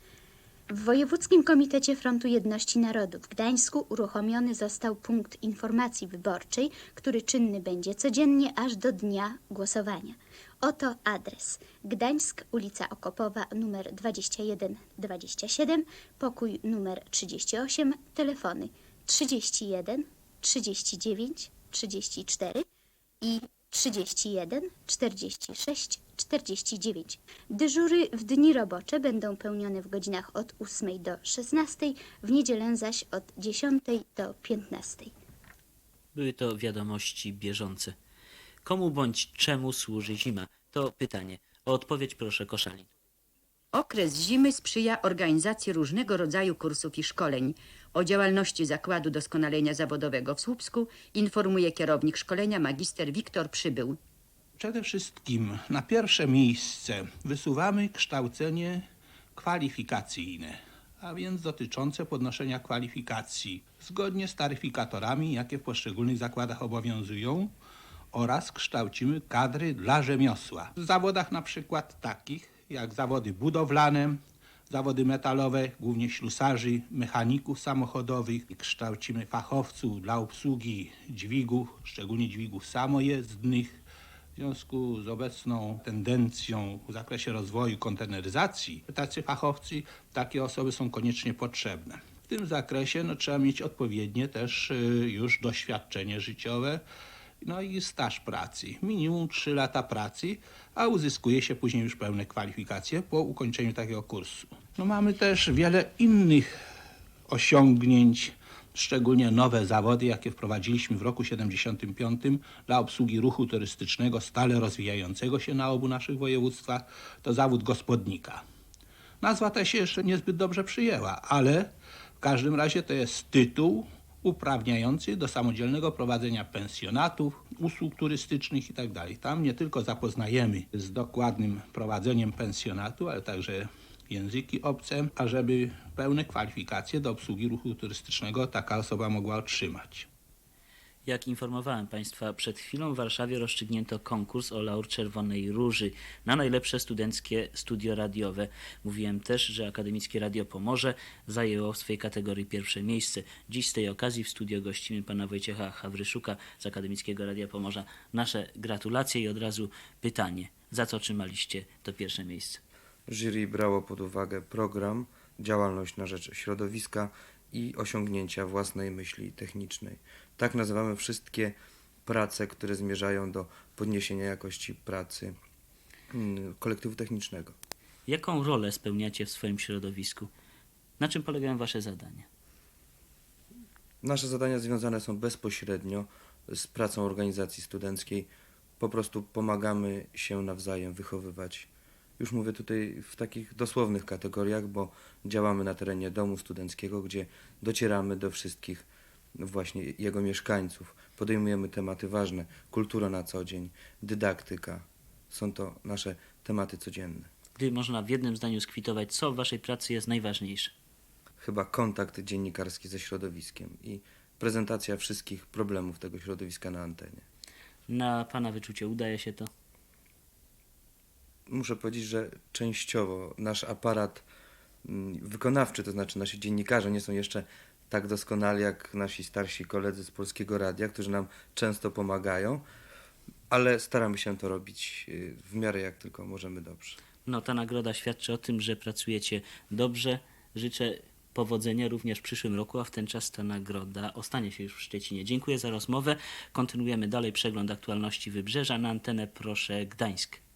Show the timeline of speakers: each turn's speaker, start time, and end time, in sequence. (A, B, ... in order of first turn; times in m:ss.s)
0:00.7-0:22.6 A
0:23.2-0:35.1 A
0:36.1-0:37.9 B
0:38.6-0:42.9 B
0:43.7-0:54.0 C
0:54.6-1:07.5 D
1:08.1-1:14.2 D
1:14.7-1:23.8 D
1:24.4-1:36.8 D
1:37.4-1:46.5 D
1:47.3-1:58.4 D
1:59.2-2:20.1 D
2:21.0-2:42.6 B
2:43.1-2:55.3 E
2:56.1-2:57.5 E
2:58.1-3:00.3 B
3:01.0-3:02.3 B
3:04.0-3:18.9 E
3:19.4-3:27.3 E
3:27.6-3:30.7 B
3:31.4-3:37.2 E
3:37.9-3:39.5 B
3:41.5-3:44.2 E
3:44.8-3:52.6 E
3:53.5-3:57.0 E
3:57.2-4:10.4 B